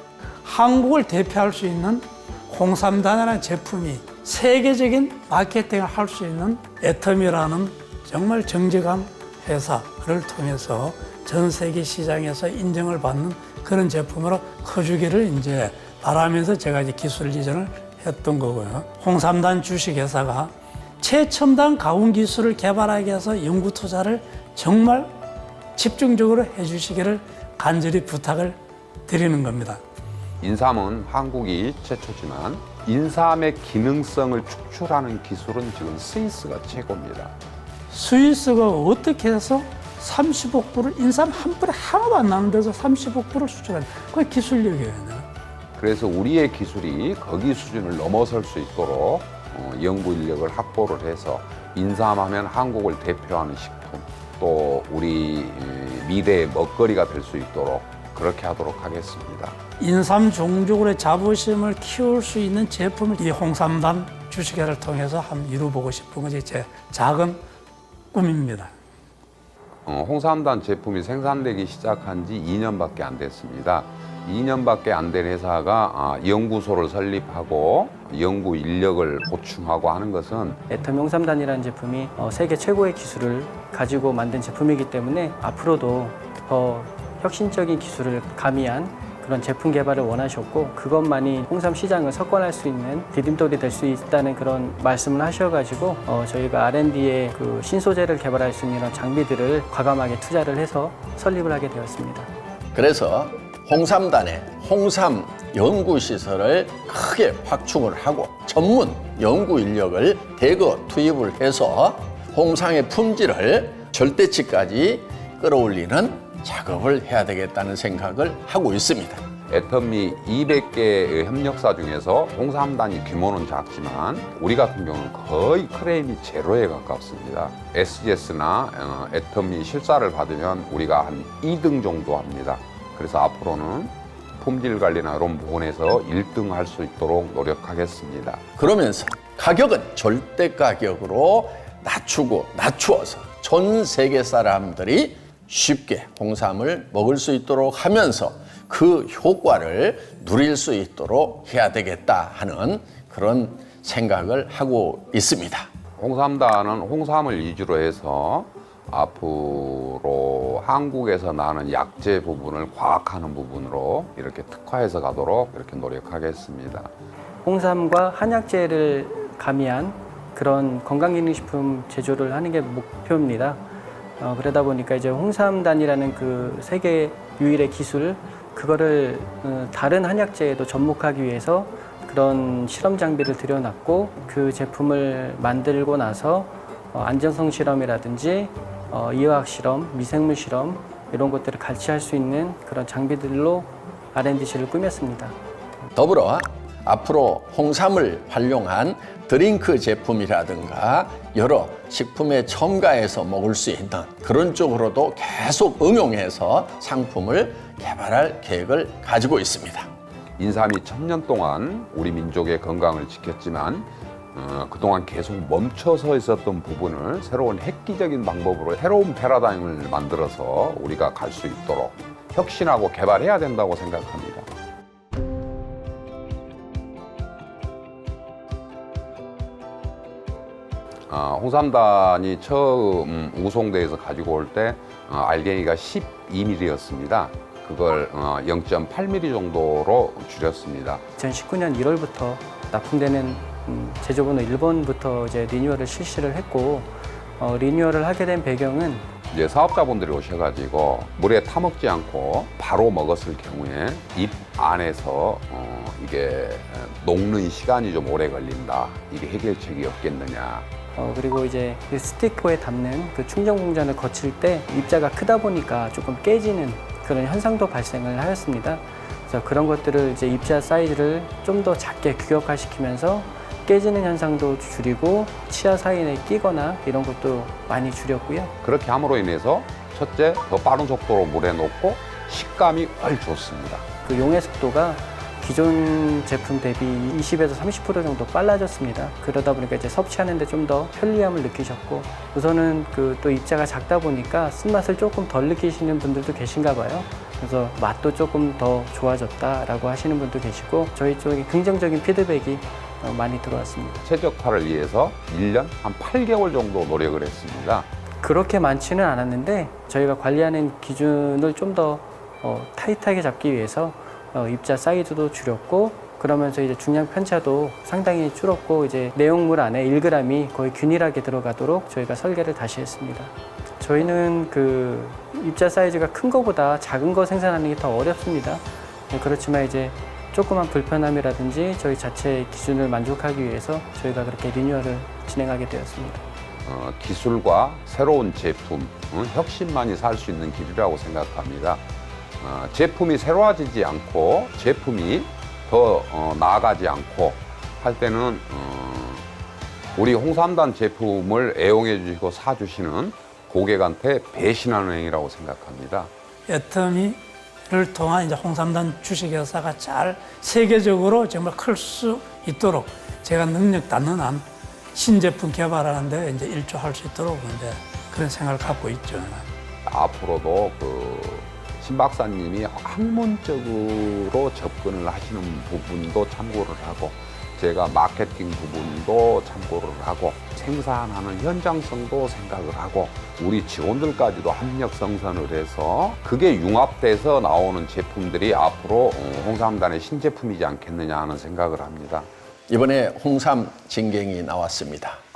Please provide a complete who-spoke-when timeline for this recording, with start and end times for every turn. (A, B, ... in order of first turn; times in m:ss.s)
0:00.4-0:25.1 A
0:25.8-0:29.8 A
0:30.4-0:37.3 B
0:37.9-0:45.3 A
0:45.8-0:59.6 B
0:59.8-1:07.4 A
1:08.1-1:08.7 A
1:09.8-1:20.6 B
1:20.7-1:42.3 C
1:42.7-1:59.2 D
1:59.5-2:18.4 B
2:18.6-2:35.7 D
2:36.0-2:46.9 B
2:47.4-2:53.6 C
2:54.2-3:15.4 C
3:16.0-3:29.9 D
3:30.4-3:44.5 B
3:51.1-4:01.0 B
4:01.2-4:09.1 C
4:09.3-4:20.7 B
4:21.0-4:38.5 C
4:38.6-4:43.8 B
4:44.0-5:04.0 C
5:04.0-5:07.9 B
5:08.2-5:36.2 C
5:36.6-5:41.8 B
5:42.4-5:49.2 B
5:50.0-5:56.1 B
5:56.5-6:09.5 A
6:09.8-6:32.3 B
6:32.7-6:35.2 D